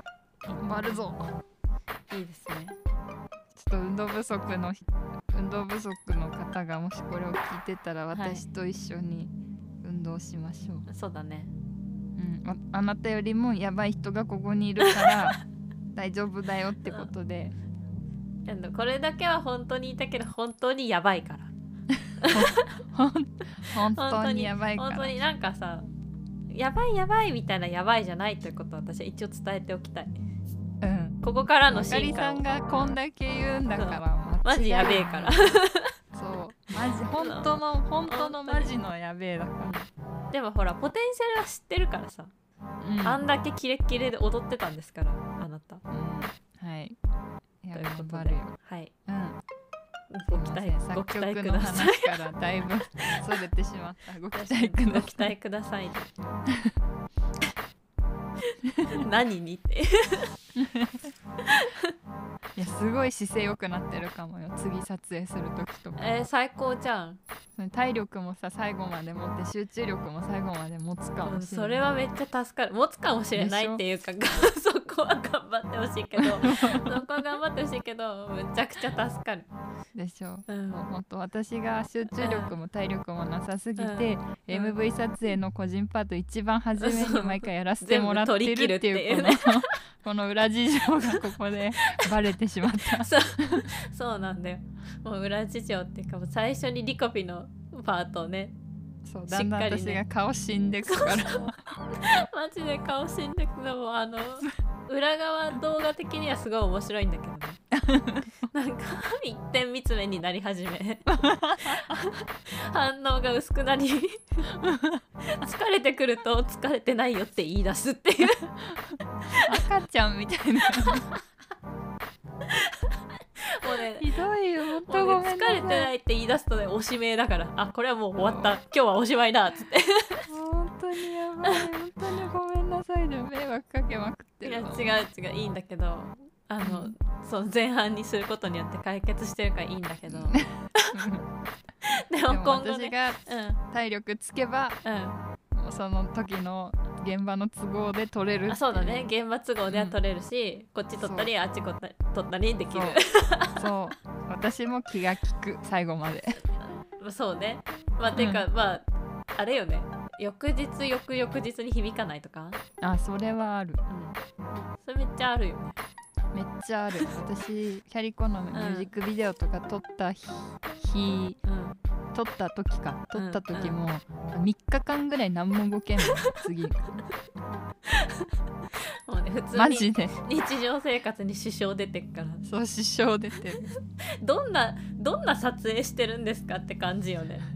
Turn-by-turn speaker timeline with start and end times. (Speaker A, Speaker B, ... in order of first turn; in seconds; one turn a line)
Speaker A: 0.5-1.3
Speaker B: 0.6-1.2
Speaker A: 2.1-2.8
Speaker B: 3.5-10.9
Speaker A: 8.1-8.4
Speaker A: 10.9-11.5
Speaker B: 12.2-15.4
Speaker A: 14.8-15.4
Speaker B: 15.9-17.6
Speaker A: 16.9-17.1
Speaker A: 18.5-21.5
Speaker A: 22.2-22.8
Speaker B: 22.2-25.1
Speaker A: 23.9-25.9
Speaker A: 26.5-30.1
Speaker B: 30.8-35.4
Speaker A: 31.2-32.9
Speaker A: 33.8-36.0
Speaker B: 36.1-39.8
Speaker A: 37.2-37.5
Speaker A: 38.1-38.7
Speaker A: 39.6-42.3
Speaker B: 42.8-43.2
Speaker A: 43.0-45.8
Speaker B: 45.9-47.0
Speaker B: 47.6-48.5
Speaker A: 47.7-48.9
Speaker B: 49.1-49.4
Speaker A: 50.1-52.2
Speaker B: 50.3-55.3
Speaker A: 53.0-53.2
Speaker A: 54.3-56.1
Speaker B: 56.5-56.8
Speaker A: 58.5-60.3
Speaker B: 60.6-61.1
Speaker A: 61.4-62.0
Speaker B: 62.6-66.0
Speaker A: 66.0-67.2
Speaker B: 67.6-71.9
Speaker A: 71.2-79.5
Speaker B: 73.4-73.8
Speaker B: 76.2-77.1
Speaker B: 80.0-93.7
Speaker A: 80.5-80.9
Speaker A: 82.2-82.5
Speaker A: 83.8-84.8
Speaker A: 86.8-89.8
Speaker A: 91.0-92.1
Speaker A: 92.7-98.5
Speaker B: 99.1-101.6
Speaker A: 99.3-100.0
Speaker A: 100.9-107.6
Speaker B: 107.7-108.3
Speaker A: 108.5-114.6
Speaker B: 111.1-111.9
Speaker B: 114.6-115.0
Speaker A: 115.3-118.5
Speaker B: 118.8-121.1
Speaker A: 119.3-119.6
Speaker A: 120.8-121.2
Speaker A: 122.5-124.1
Speaker B: 124.0-125.9
Speaker A: 124.8-130.3
Speaker B: 128.2-128.5
Speaker B: 130.3-134.9
Speaker A: 134.4-141.2
Speaker B: 136.6-136.9
Speaker B: 140.3-141.2
Speaker A: 141.8-143.6
Speaker B: 142.3-144.8
Speaker A: 144.8-145.2
Speaker B: 145.5-149.1
Speaker A: 148.5-153.7
Speaker B: 149.7-150.0
Speaker B: 151.0-151.3
Speaker B: 152.7-153.0
Speaker B: 153.5-156.4
Speaker A: 156.7-162.6
Speaker B: 158.2-158.5
Speaker B: 162.8-163.8
Speaker A: 163.9-164.2
Speaker A: 164.8-165.8
Speaker B: 166.3-171.4
Speaker A: 168.5-168.9
Speaker A: 171.4-171.8
Speaker B: 172.1-177.0
Speaker A: 173.1-173.8
Speaker A: 177.9-182.4
Speaker B: 179.5-180.2
Speaker B: 182.4-183.8
Speaker A: 184.2-187.5